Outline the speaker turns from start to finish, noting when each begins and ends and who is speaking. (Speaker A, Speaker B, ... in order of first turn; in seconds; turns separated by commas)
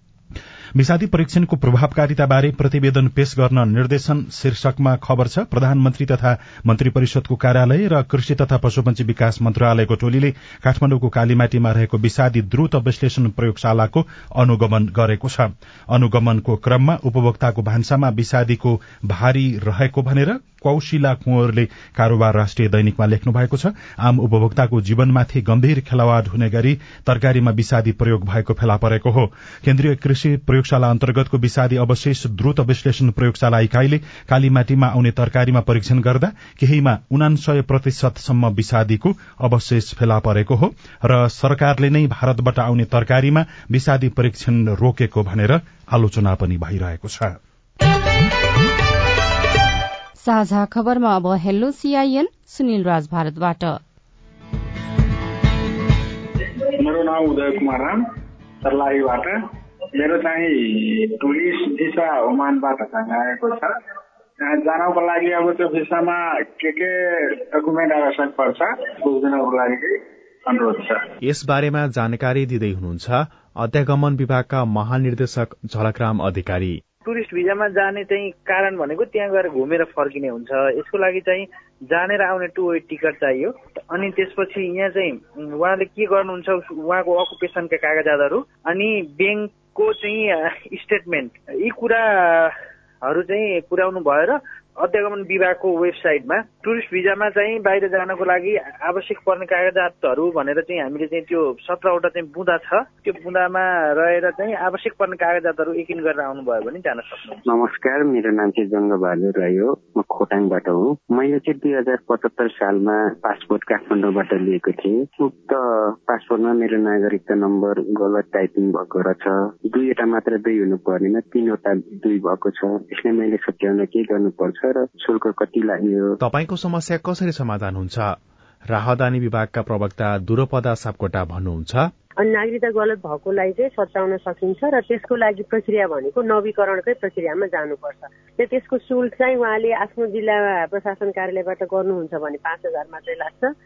Speaker A: 0.8-47.4, Speaker B: 50.2-53.8, Speaker C: 56.8-58.0, Speaker C: 58.6-59.4, Speaker C: 60.0-63.7, Speaker C: 64.4-71.1, Speaker D: 71.2-76.8, Speaker E: 77.0-107.4, Speaker F: 107.5-126.2, Speaker D: 126.2-128.2, Speaker D: 128.7-131.9, Speaker G: 132.2-143.5